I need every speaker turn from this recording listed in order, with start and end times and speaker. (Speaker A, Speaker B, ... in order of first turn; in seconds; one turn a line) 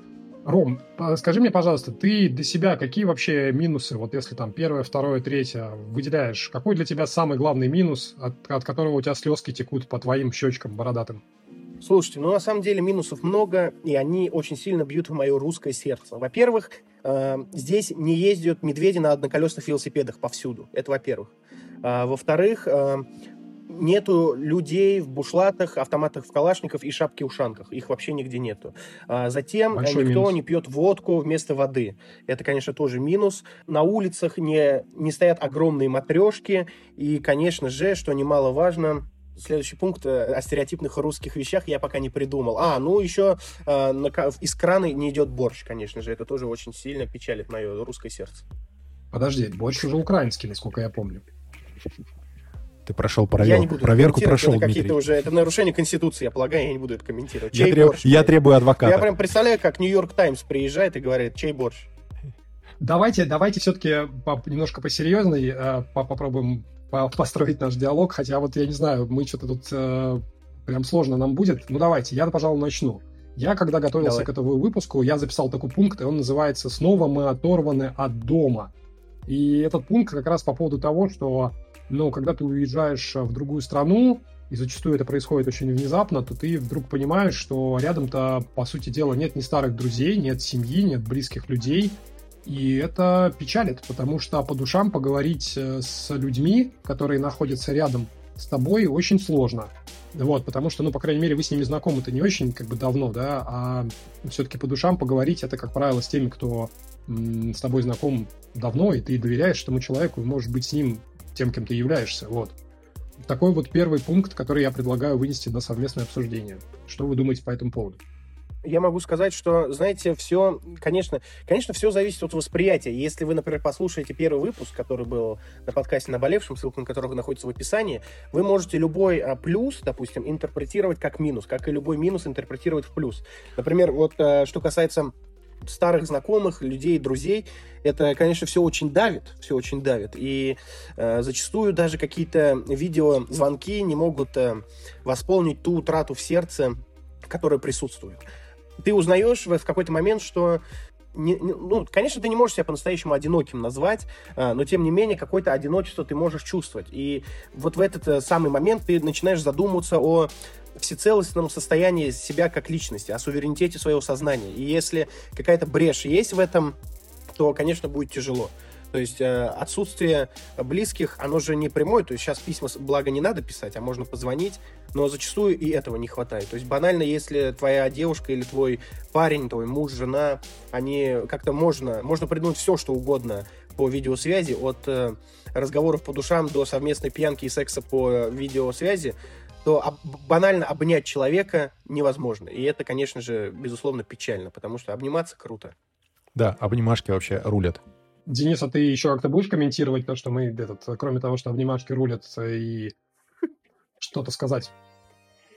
Speaker A: 0.4-11.2
Speaker B: 11.8-23.1
Speaker B: 23.7-48.4
Speaker A: 29.7-30.4
Speaker A: 49.1-51.2
Speaker C: 52.9-55.0
Speaker B: 53.4-61.9
Speaker C: 57.5-59.1
Speaker A: 62.8-78.7
Speaker B: 74.0-74.3
Speaker A: 79.3-112.5
Speaker A: 113.3-118.0
Speaker B: 118.6-135.1
Speaker B: 135.6-148.2
Speaker B: 148.8-150.6
Speaker B: 151.1-166.8
Speaker B: 167.3-195.7
Speaker C: 196.3-197.8
Speaker A: 198.3-202.9
Speaker A: 204.0-204.7